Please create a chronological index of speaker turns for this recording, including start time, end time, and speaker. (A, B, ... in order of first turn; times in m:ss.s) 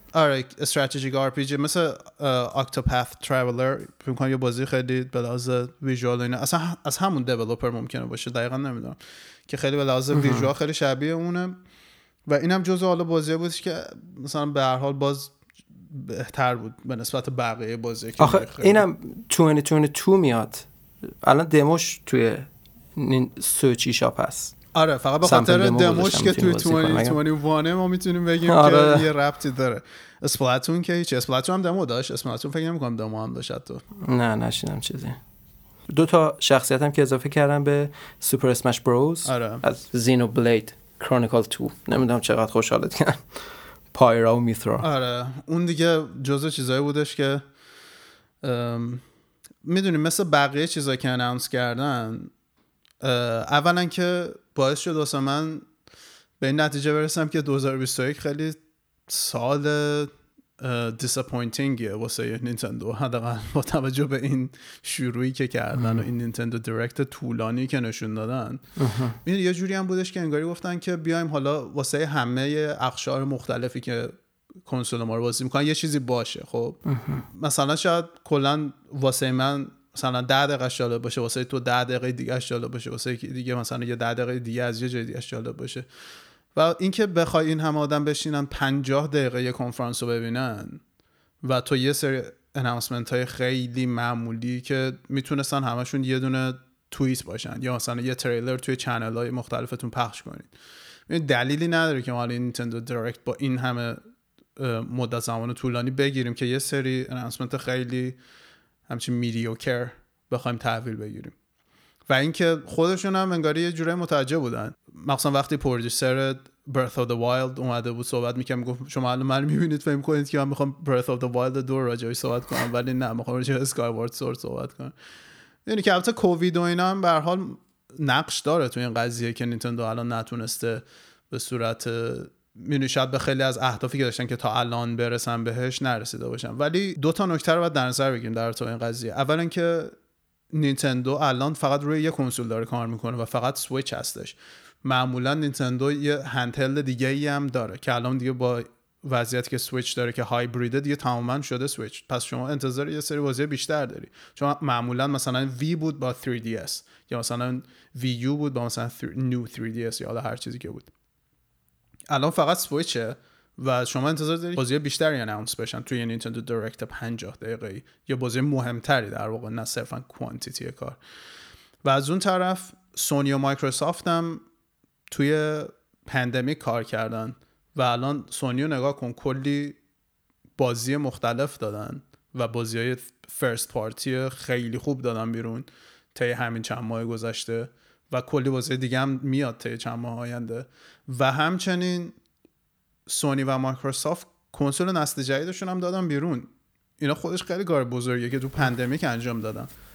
0:00.1-0:09.0 A
0:09.5-0:11.6 A
0:10.1-0:10.5 B
0:12.3-0:15.4 A
0:15.9-0:18.8 A
0:18.2-0:20.7 B
0:21.2-0:24.6 B
0:24.7-0:33.8 A
0:25.2-0:27.2 B
0:28.5-0:29.1 B
0:34.0-0:35.2 B
0:35.9-0:43.2 B
0:39.3-0:39.6 A
0:43.9-0:44.9 B
0:44.8-0:47.4 A
0:48.4-0:49.0 A
0:49.6-0:52.3 A
0:53.0-0:55.7 A
0:56.4-1:08.6 A
1:05.8-1:06.1 B
1:08.8-1:09.2 B
1:09.2-1:14.1 A
1:14.7-1:25.9 A
1:16.9-1:17.2 B
1:26.6-1:30.8 A
1:31.4-1:40.5 A
1:41.1-1:44.0 A
1:44.6-1:48.2 A
1:48.9-1:51.3 A
1:52.1-2:05.0 A
2:05.7-2:19.9 A
2:20.5-2:40.9 A
2:42.1-2:51.0 A
2:51.8-2:54.4 A
2:55.1-2:59.8 A
3:00.6-3:12.2 A
3:13.1-3:19.7 A